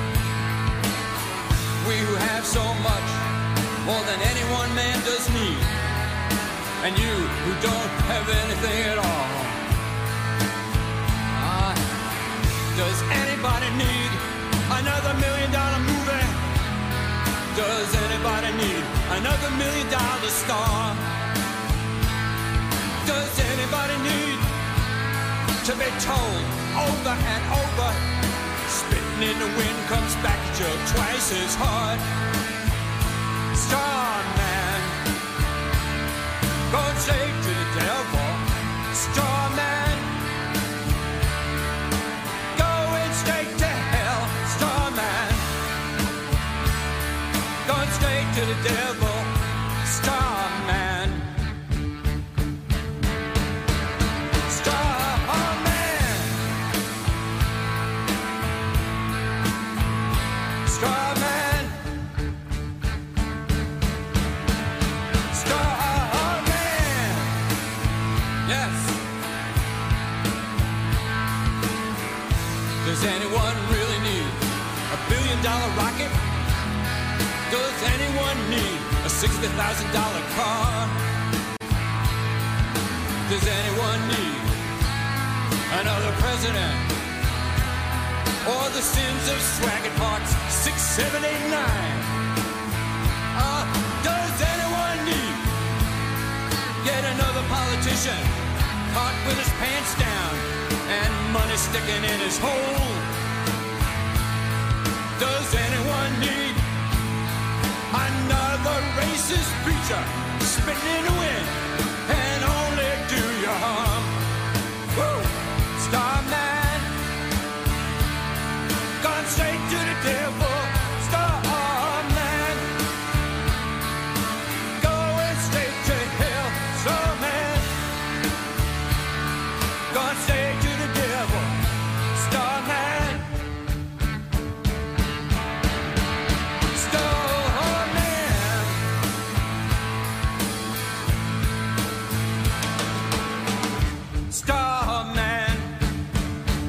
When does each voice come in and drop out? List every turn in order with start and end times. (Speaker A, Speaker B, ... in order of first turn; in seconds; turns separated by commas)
Speaker A: 1.8-3.2, Speaker A: 3.8-5.7, Speaker A: 6.8-9.6, Speaker A: 11.3-11.8, Speaker A: 12.7-16.4, Speaker A: 17.5-21.1, Speaker A: 23.0-24.5, Speaker A: 25.6-28.1, Speaker A: 28.6-32.0, Speaker A: 33.5-35.0, Speaker A: 36.7-40.1, Speaker A: 42.5-45.5, Speaker A: 47.6-51.3, Speaker A: 54.5-56.4, Speaker A: 60.6-61.8, Speaker A: 65.3-67.4, Speaker A: 68.4-69.0, Speaker A: 72.8-76.2, Speaker A: 77.5-81.0, Speaker A: 83.3-84.6, Speaker A: 85.7-87.0, Speaker A: 88.4-92.2, Speaker A: 93.3-95.5, Speaker A: 96.8-103.1, Speaker A: 105.2-106.6, Speaker A: 107.9-114.1, Speaker A: 114.9-116.9, Speaker A: 119.0-122.7, Speaker A: 124.8-127.7, Speaker A: 129.9-131.6, Speaker A: 132.1-133.3, Speaker A: 136.7-138.8, Speaker A: 144.3-145.7